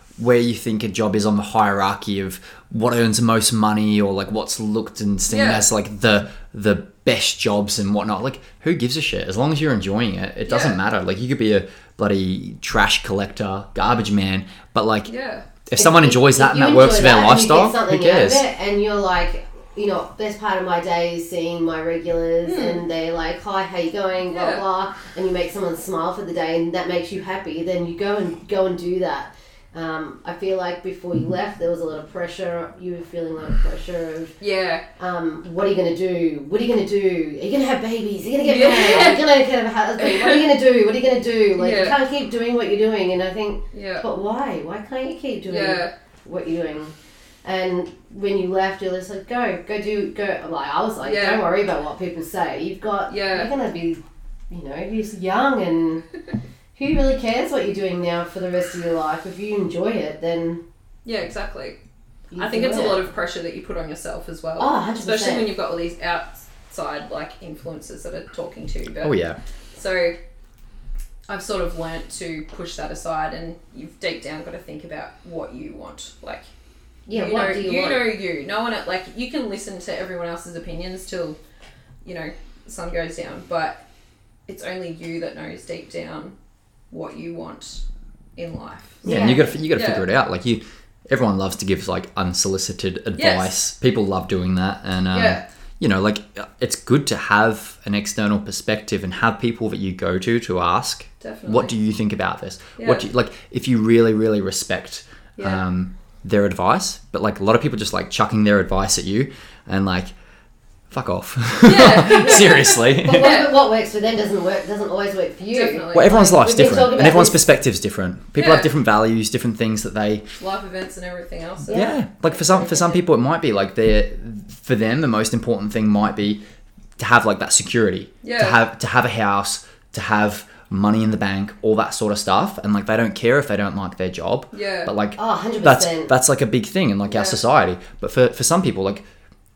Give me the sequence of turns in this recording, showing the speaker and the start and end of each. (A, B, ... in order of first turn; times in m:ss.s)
0:00.2-0:15.1 A
0:05.3-0:05.7 B
0:10.5-0:10.8 B
0:15.1-0:15.4 B
0:15.7-0:18.4 A
0:15.8-0:34.4 C
0:22.4-0:22.8 B
0:24.3-0:24.6 B
0:34.4-0:34.8 B
0:35.0-0:56.0 C
0:38.4-0:39.3 B
0:40.0-0:40.5 B
0:41.6-0:42.0 B
0:43.7-0:44.1 B
0:45.5-0:45.9 B
0:51.0-0:51.4 B
0:53.1-0:53.5 B
0:56.8-1:00.6 C
1:01.0-1:01.8 B
1:02.3-1:03.0 C
1:02.4-1:09.2 B
1:04.6-1:05.5 C
1:09.0-1:09.4 A
1:09.7-1:10.2 B
1:11.3-1:16.4 B
1:17.1-1:18.1 C
1:17.1-1:21.4 B
1:22.0-1:23.8 B
1:24.5-1:26.4 B
1:26.9-1:27.8 B
1:28.4-1:30.1 B
1:29.0-1:29.5 C
1:29.0-1:50.1 A
1:33.2-1:33.6 B
1:35.1-1:35.4 B
1:41.2-1:41.7 B
1:42.8-1:43.1 B
1:45.4-1:45.6 B
1:50.9-1:53.4 A
1:51.6-1:53.5 B
1:52.2-1:57.4 C
1:55.5-1:56.3 B
1:55.9-2:00.2 A
1:58.4-1:58.7 B
2:00.4-2:03.0 B
2:01.7-2:02.0 C
2:01.7-2:06.4 A
2:07.0-2:19.0 A
2:08.2-2:08.6 B
2:14.5-2:14.9 B
2:15.2-2:16.1 C
2:17.1-2:17.4 B